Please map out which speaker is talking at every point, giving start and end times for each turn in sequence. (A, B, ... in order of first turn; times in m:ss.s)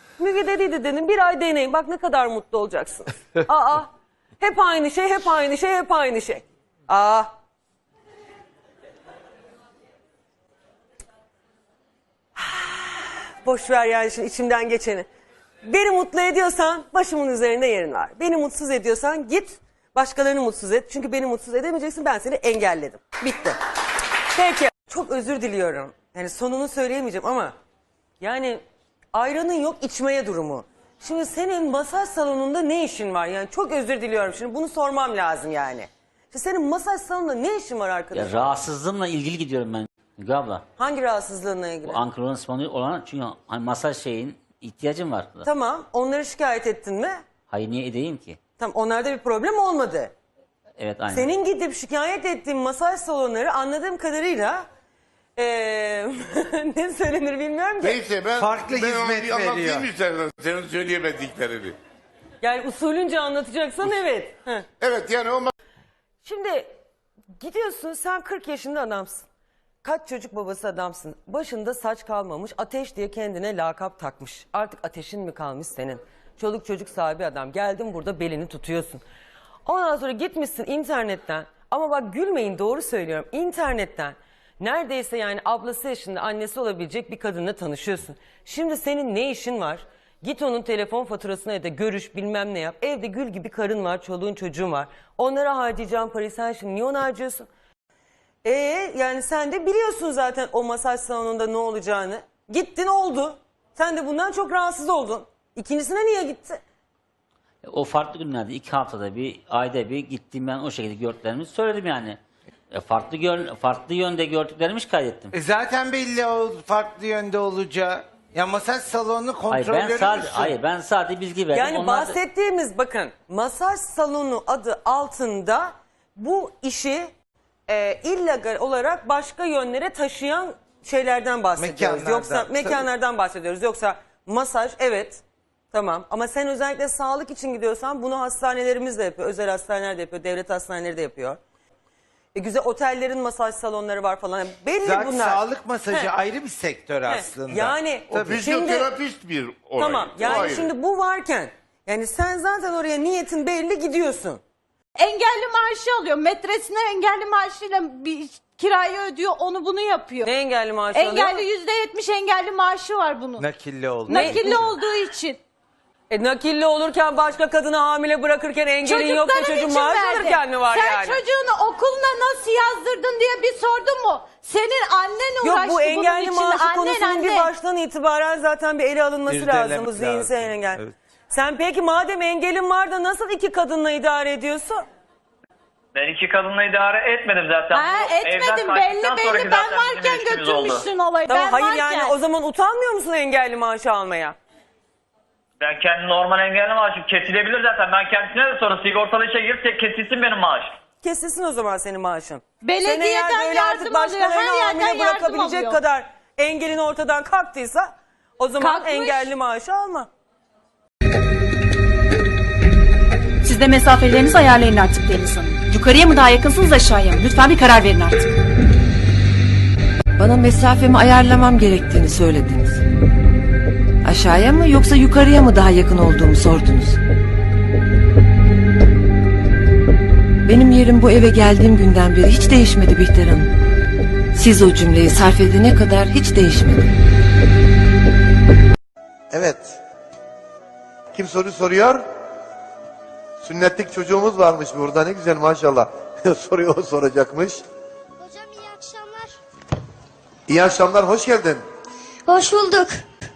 0:00.2-0:03.9 A
0:04.4-0:07.3 A
0:12.4-0:15.0 A
0:15.6-0:23.6 A
0:24.3-0:27.5 A
0:28.2-0:28.6 A
0:29.1-0:38.5 A
0:38.1-0:40.6 B
0:40.8-0:42.0 A
0:41.8-0:45.4 B
0:45.4-0:47.2 A
0:47.5-0:48.4 B
0:48.6-0:50.1 A
0:50.8-0:51.3 B
0:51.1-0:54.6 A
0:55.4-0:58.0 A
0:57.8-1:01.8 C
0:58.3-0:59.9 D
1:02.4-1:04.6 A
1:04.8-1:05.5 C
1:06.2-1:06.7 A
1:07.4-1:09.2 A
1:09.8-1:19.0 A
1:19.6-1:37.5 A
1:38.4-1:46.6 A
1:47.6-1:52.2 B
1:52.7-1:55.3 B
1:55.3-2:00.5 D
1:59.5-2:02.2 B
2:01.5-2:07.1 A
2:07.7-2:21.4 A
2:11.6-2:12.8 D
2:22.3-2:26.1 A
2:24.8-2:28.5 D
2:27.1-2:28.9 A
2:28.1-2:30.7 C
2:29.8-2:34.4 A
2:35.0-2:40.3 E
2:40.2-2:41.4 A
2:40.9-2:43.5 E
2:43.4-2:44.6 D
2:44.0-2:45.4 E
2:44.1-2:44.6 A
2:46.1-2:51.2 A
2:48.8-2:57.5 E
2:55.4-3:04.8 A
2:59.3-3:00.9 D
3:05.9-3:10.8 F
3:07.7-3:12.2 E
3:11.3-3:14.4 A
3:15.6-3:20.7 F
3:21.0-3:30.1 A
3:22.6-3:25.8 E
3:28.6-3:29.3 E
3:33.4-3:38.3 G
3:40.2-3:42.8 H
3:44.0-3:47.0 H
3:50.4-3:53.5 H
3:54.3-3:56.9 H
3:59.3-3:59.8 I
4:01.1-4:02.0 I
4:03.4-4:07.6 I
4:08.2-4:09.4 J
4:10.5-4:11.6 I
4:12.3-4:13.0 J